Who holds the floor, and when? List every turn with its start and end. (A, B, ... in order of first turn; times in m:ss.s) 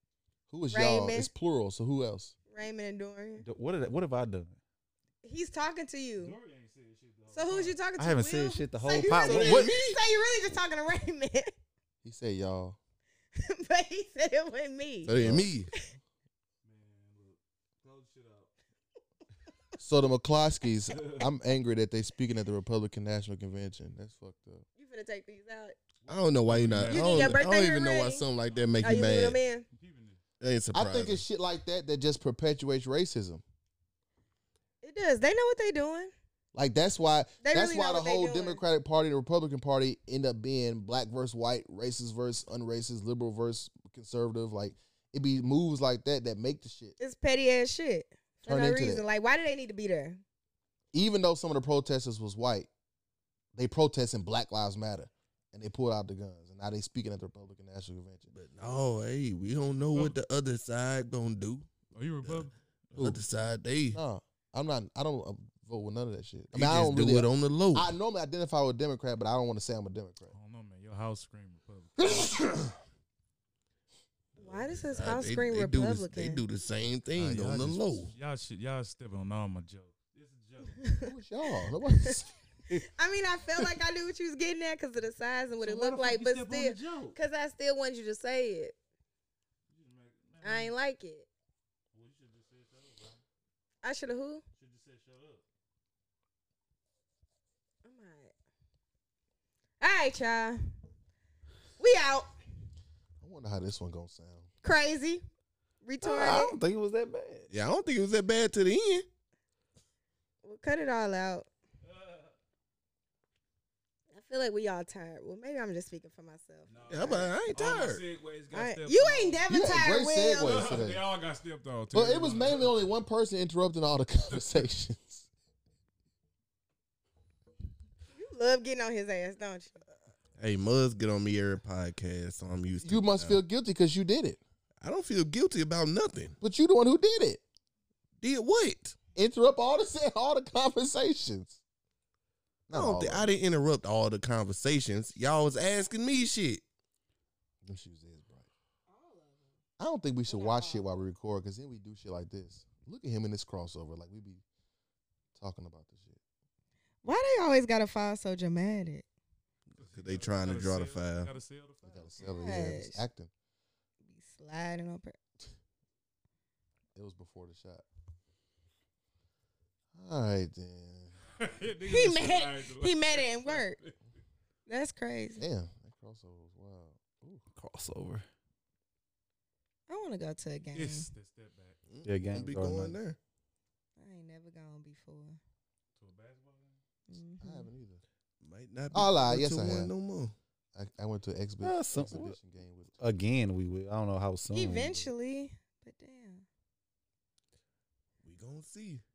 0:00.5-0:02.4 A
0:00.7-0:01.3 B
0:02.5-0:03.4 B
0:03.4-0:04.6 C
0:05.2-0:06.4 B
0:06.2-0:07.8 D
0:07.3-0:11.5 B
0:08.0-0:09.7 C
0:08.9-0:10.0 E
0:12.0-0:12.8 A
0:13.4-0:15.1 B
0:15.1-0:15.7 E
0:15.1-0:15.5 A
0:16.6-0:18.5 D
0:19.8-0:24.6 A
0:20.9-0:21.3 D
0:24.8-0:25.8 B
0:26.0-0:27.5 D
0:26.1-0:29.4 E
0:26.9-0:28.2 B
0:28.5-0:28.9 D
0:28.8-0:29.6 B
0:29.7-0:30.2 D
0:30.4-0:31.2 E
0:30.7-0:33.4 A
0:34.8-0:36.1 B
0:36.5-0:47.0 A
0:37.4-0:38.6 B
0:47.0-0:50.2 B
0:48.5-0:49.0 A
0:50.9-0:52.7 A
0:53.6-0:58.3 A
0:58.3-1:01.7 E
0:59.9-1:00.2 D
1:01.9-1:03.0 D
1:02.2-1:04.0 E
1:03.9-1:10.3 A
1:06.5-1:07.9 E
1:10.3-1:12.3 D
1:12.0-1:12.8 A
1:14.4-1:15.0 D
1:14.4-1:16.4 B
1:14.9-1:18.1 E
1:17.2-1:20.8 D
1:17.2-1:17.8 A
1:20.7-1:21.1 B
1:21.0-1:22.3 A
1:21.7-1:22.2 B
1:22.7-1:28.8 B
1:25.6-1:27.2 D
1:29.7-1:30.7 D
1:30.4-1:31.3 B
1:31.9-1:33.2 D
1:33.8-1:34.4 B
1:34.6-1:35.4 D
1:37.8-1:38.3 B
1:39.8-1:40.6 B
1:41.8-1:42.3 B
1:43.2-1:44.5 A
1:44.6-1:45.2 B
1:45.8-1:46.6 B
1:46.0-1:47.5 C
1:47.5-1:49.0 E
1:50.4-1:51.5 B
1:51.8-1:52.3 D
1:54.1-1:56.7 B
1:56.7-1:59.4 D
1:56.9-1:58.0 E
1:58.5-2:00.8 B
1:59.5-2:01.0 A
2:00.4-2:02.9 D
2:01.9-2:05.2 A
2:08.1-2:09.8 B
2:10.4-2:13.4 E
2:12.8-2:14.4 A
2:14.8-2:16.4 E
2:16.4-2:17.4 A
2:18.2-2:19.0 E
2:19.2-2:21.6 A
2:22.7-2:23.3 A
2:22.7-2:26.6 E
2:27.6-2:28.5 A
2:28.9-2:29.5 B
2:29.8-2:34.4 A
2:30.3-2:31.1 B
2:35.4-2:36.2 A
2:37.0-2:39.1 B
2:39.7-2:41.3 E
2:39.8-2:42.2 D
2:41.9-2:43.3 A
2:42.2-2:43.0 B
2:44.1-2:45.2 B
2:47.0-2:47.8 A
2:50.0-2:51.2 A
2:51.4-2:54.0 D
2:51.9-2:53.8 B
2:54.7-2:55.4 B
2:55.4-2:57.4 A
2:57.6-2:58.3 C
2:59.9-3:01.1 B
3:00.7-3:01.8 D
3:01.9-3:03.2 E
3:02.0-3:03.0 C
3:04.0-3:05.4 B
3:06.0-3:06.8 D
3:07.1-3:07.7 B
3:07.4-3:08.0 A
3:08.4-3:10.4 E
3:08.9-3:09.9 A
3:10.8-3:13.2 A
3:11.6-3:12.4 C
3:13.0-3:15.1 C
3:14.5-3:16.4 B
3:18.2-3:19.0 E